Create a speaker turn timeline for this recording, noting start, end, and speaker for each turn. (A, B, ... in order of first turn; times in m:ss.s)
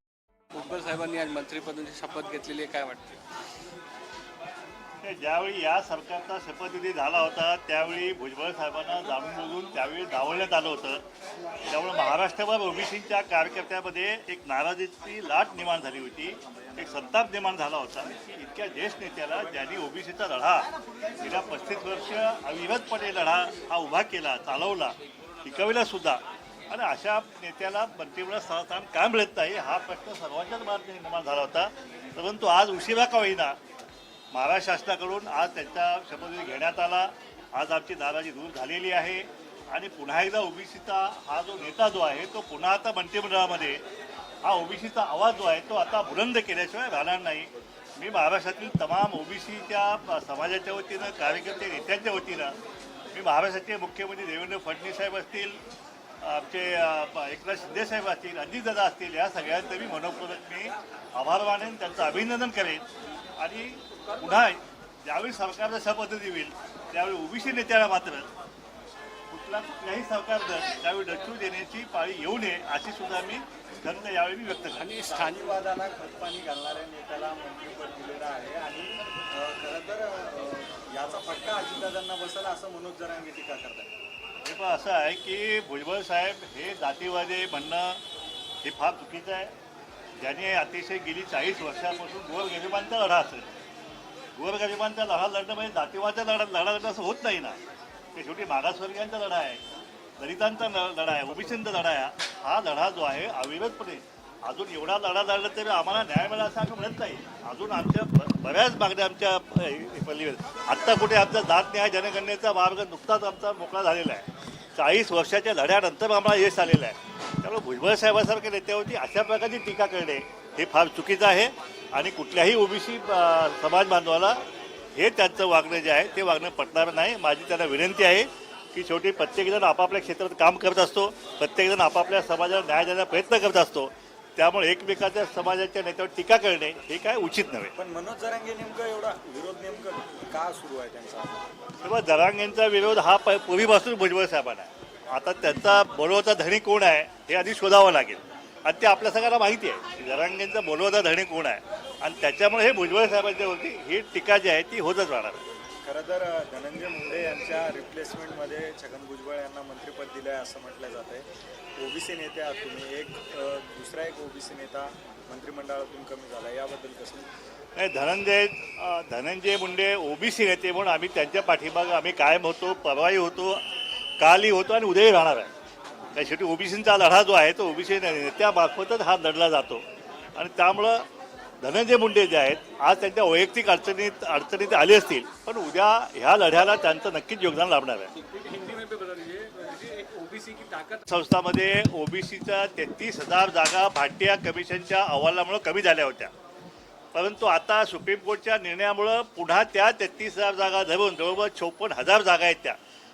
0:00.5-0:03.2 A
0:05.0-0:11.0 B
0:11.7-0:33.6 B
0:34.3-0:43.8 B
0:44.4-0:52.6 B
0:53.1-0:55.6 B
0:56.2-1:02.8 B
1:03.4-1:08.3 B
1:09.3-1:14.9 B
1:14.8-1:15.5 A
1:15.0-1:23.9 C
1:24.4-1:28.0 B
1:28.6-1:29.5 B
1:30.2-1:33.5 B
1:34.4-1:37.6 B
1:38.2-1:39.6 B
1:40.2-2:04.4 B
2:05.0-2:17.7 B
2:17.8-2:21.4 C
2:21.8-2:35.4 B
2:35.8-2:41.3 C
2:41.8-2:47.3 C
2:47.8-2:53.6 B
2:54.2-2:55.5 B
2:56.1-3:01.0 B
3:01.6-3:08.1 B
3:08.2-3:11.0 A
3:11.1-3:16.3 B
3:17.1-3:22.8 B